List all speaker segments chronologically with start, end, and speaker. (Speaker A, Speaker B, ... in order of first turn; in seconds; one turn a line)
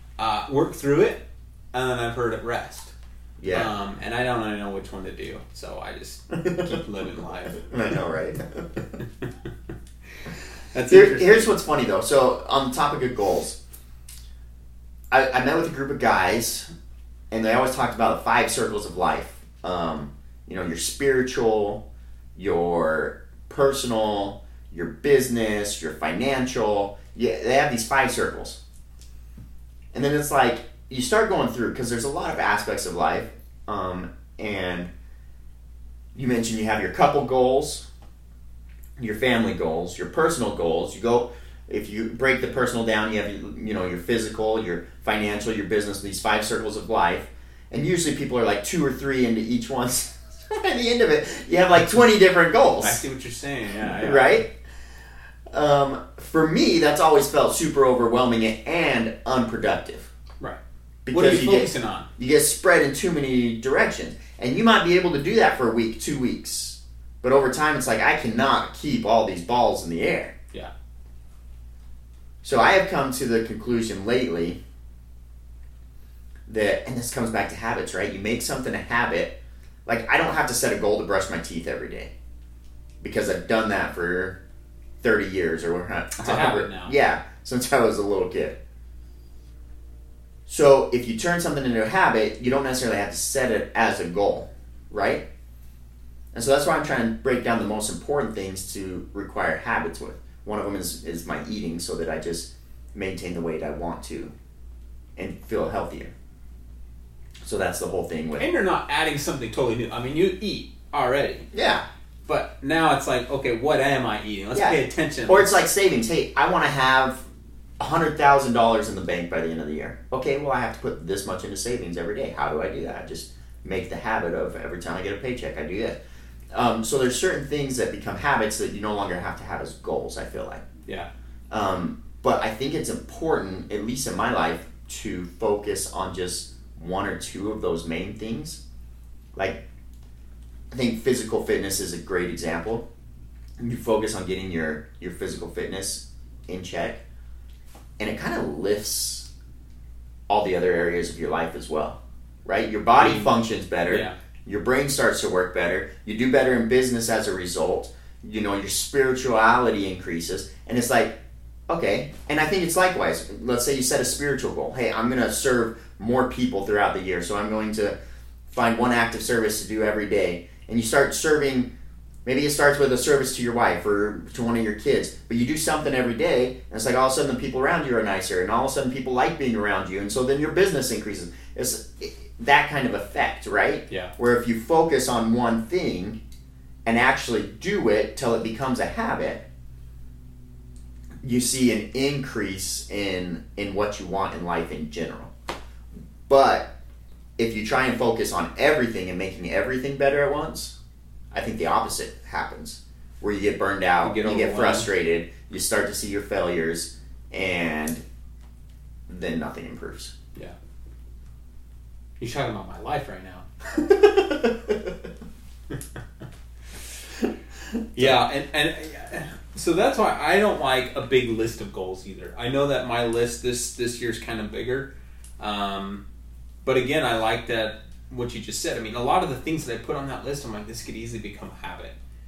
Speaker A: 0.2-2.9
Speaker B: 3.4-3.7
Speaker A: 3.5-7.7
Speaker B: 6.4-6.8
Speaker B: 7.6-8.8
Speaker A: 10.7-11.6
Speaker B: 10.9-13.6
Speaker B: 15.1-16.7
Speaker B: 17.3-21.8
Speaker B: 22.4-28.6
Speaker B: 29.9-34.9
Speaker B: 36.1-37.9
Speaker B: 39.0-53.0
Speaker A: 52.8-54.4
Speaker B: 53.9-54.5
Speaker B: 55.5-60.1
Speaker B: 61.0-70.3
Speaker A: 61.1-62.1
Speaker B: 72.4-74.6
Speaker B: 76.5-82.1
Speaker B: 83.0-84.4
Speaker B: 85.0-88.6
Speaker A: 86.2-86.9
Speaker B: 90.5-95.2
Speaker B: 96.3-104.3
Speaker B: 105.2-106.1
Speaker B: 107.4-108.5
Speaker A: 108.4-111.5
Speaker B: 111.5-111.8
Speaker A: 112.3-115.6
Speaker B: 114.5-117.3
Speaker B: 117.8-126.0
Speaker B: 126.5-130.6
Speaker B: 131.5-138.6
Speaker B: 139.3-139.6
Speaker B: 140.7-142.8
Speaker B: 143.6-147.0
Speaker B: 148.0-149.3
Speaker B: 150.3-161.2
Speaker A: 153.0-153.3
Speaker A: 153.9-154.2
Speaker B: 161.7-167.9
Speaker B: 168.5-171.7
Speaker B: 172.2-186.2
Speaker B: 186.8-189.4
Speaker B: 191.2-195.3
Speaker B: 196.3-196.7
Speaker B: 197.4-200.8
Speaker B: 201.3-208.0
Speaker A: 204.0-204.9
Speaker B: 209.1-210.1
Speaker A: 212.2-213.5
Speaker B: 218.0-218.2
Speaker A: 218.0-226.0
Speaker A: 226.6-231.9